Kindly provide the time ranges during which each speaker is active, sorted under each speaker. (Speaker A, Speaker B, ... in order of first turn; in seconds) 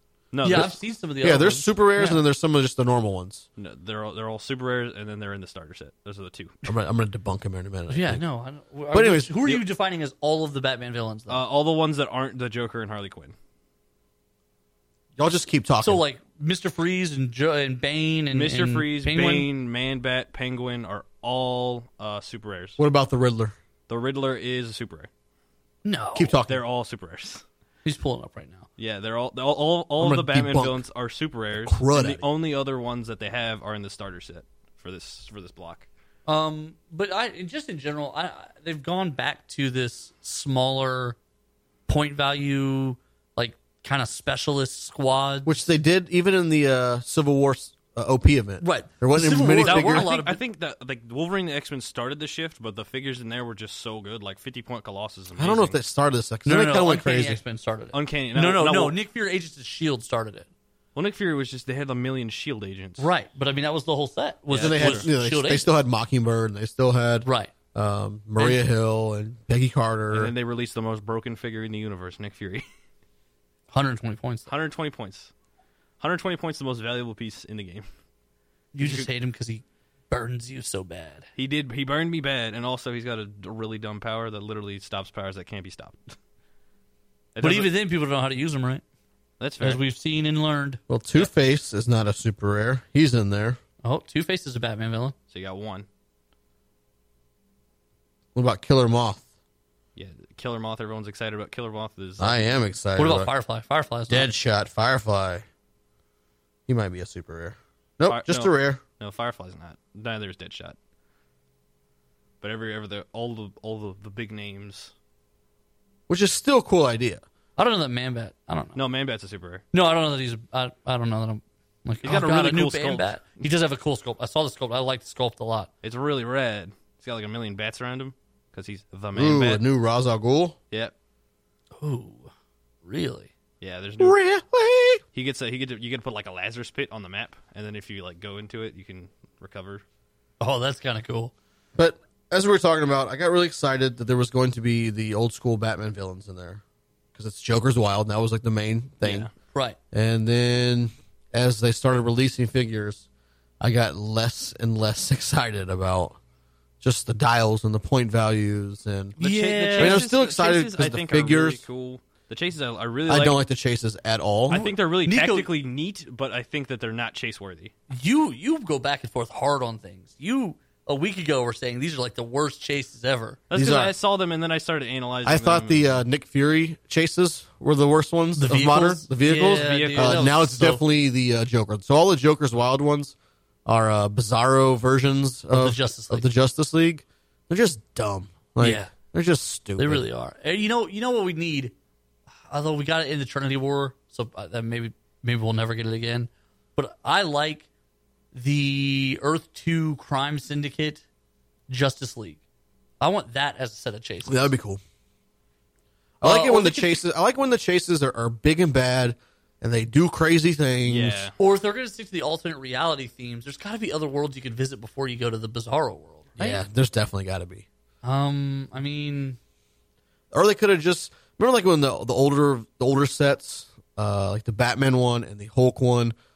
Speaker A: 0.3-0.7, 3.6-6.7, 11.3-13.3, 18.3-22.8, 23.9-25.1, 26.5-27.4, 28.8-35.9, 49.6-55.8, 57.9-59.0, 60.9-63.1, 64.5-65.1, 70.1-72.6, 74.5-75.3, 76.0-77.8, 78.8-79.1, 81.3-86.1, 87.3-87.7, 89.4-89.8, 95.3-95.8, 100.0-102.5, 108.1-110.8, 112.4-114.9, 118.7-119.6, 122.0-123.5, 125.8-129.6, 133.6-134.2, 135.1-139.8, 149.0-149.3, 159.2-163.4, 164.5-167.7, 173.5-176.0, 179.5-180.3, 210.8-211.3
Speaker B: 0.4-2.2, 7.9-11.4, 15.8-19.5, 25.8-26.4, 27.8-28.6, 36.3-41.2, 41.9-45.6, 48.6-50.4, 56.5-60.5, 63.0-65.7, 67.2-67.5, 68.4-68.6, 73.7-74.5, 78.7-81.3, 87.4-88.8, 89.6-90.8, 93.8-95.1, 103.0-104.3, 117.6-118.8, 119.7-125.7, 131.8-132.3, 132.8-133.3, 140.4-141.3, 149.5-149.8, 159.2-160.1, 164.5-165.5, 167.9-173.4, 178.4-180.8, 185.5-186.3, 188.6-188.9, 189.8-191.7, 192.5-197.7, 198.3-201.0, 201.7-202.4, 203.0-204.5, 206.2-207.0, 211.4-216.6, 218.0-219.4
Speaker C: 1.2-3.4, 6.7-8.2, 8.9-9.6, 15.2-16.0, 22.8-23.5, 26.1-26.6, 30.0-30.8, 31.5-32.2, 45.4-50.1, 55.4-57.4, 64.5-70.3, 90.9-93.6, 98.3-99.2, 102.2-103.3, 104.1-105.4, 106.7-108.8, 116.1-117.2, 129.1-130.6, 134.0-135.0, 141.8-146.6, 147.1-149.3, 149.9-153.0, 153.6-156.2, 156.8-159.2, 159.7-161.6, 163.1-164.6, 173.5-173.9, 175.2-183.1, 183.7-190.0, 204.2-204.8, 206.2-211.3, 216.4-217.6, 220.3-226.1